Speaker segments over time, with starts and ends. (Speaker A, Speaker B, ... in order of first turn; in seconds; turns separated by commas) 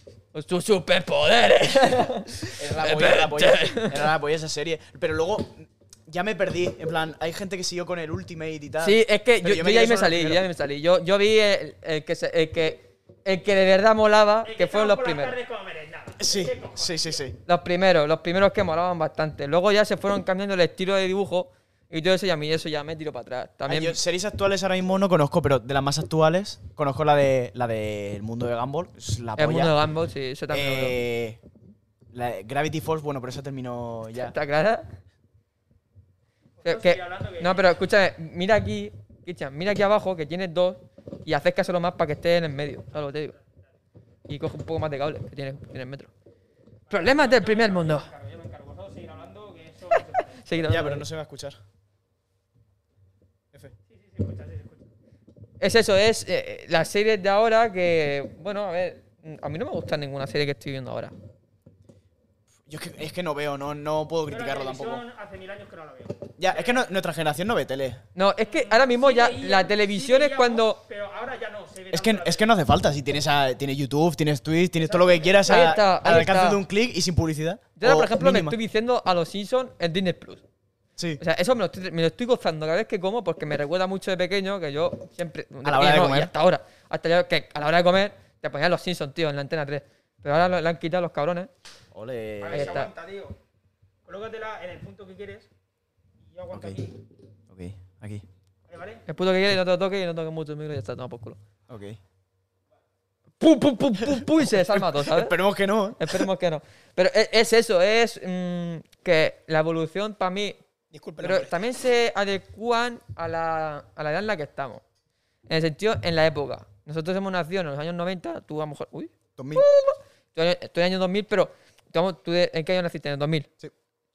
Speaker A: 0.3-4.0, Speaker B: 2.4-10.4, Speaker A: 8.8-15.3, Speaker C: 14.5-17.2, Speaker B: 16.2-17.4, Speaker A: 17.5-24.0, Speaker B: 23.7-29.8, Speaker A: 29.4-31.0, Speaker B: 30.5-31.4, Speaker B: 32.1-34.4, Speaker A: 34.2-34.9, Speaker C: 36.6-37.7, Speaker A: 36.6-43.4, Speaker A: 44.3-46.1, Speaker C: 46.9-50.4, Speaker A: 46.9-48.1, Speaker A: 49.9-51.0, Speaker B: 50.5-51.6, Speaker C: 53.9-54.9, Speaker A: 55.6-61.1, Speaker B: 62.7-65.0, Speaker C: 64.3-66.9, Speaker B: 66.4-68.0, Speaker A: 68.2-70.8, Speaker C: 68.5-72.4, Speaker B: 71.9-78.6, Speaker C: 74.9-75.9, Speaker A: 75.5-76.6, Speaker A: 77.8-80.4, Speaker A: 81.2-91.5, Speaker B: 85.6-86.3, Speaker B: 91.9-92.8, Speaker C: 92.4-93.4, Speaker A: 92.5-92.9, Speaker C: 94.1-95.5, Speaker C: 96.3-97.0, Speaker B: 96.5-96.8, Speaker B: 97.5-98.2, Speaker C: 98.7-99.0, Speaker A: 99.1-101.4, Speaker B: 101.7-102.0, Speaker A: 103.4-105.4, Speaker B: 104.0-106.3, Speaker A: 106.0-110.6, Speaker C: 110.9-111.5, Speaker A: 111.2-114.8, Speaker A: 115.5-123.5, Speaker B: 119.4-119.7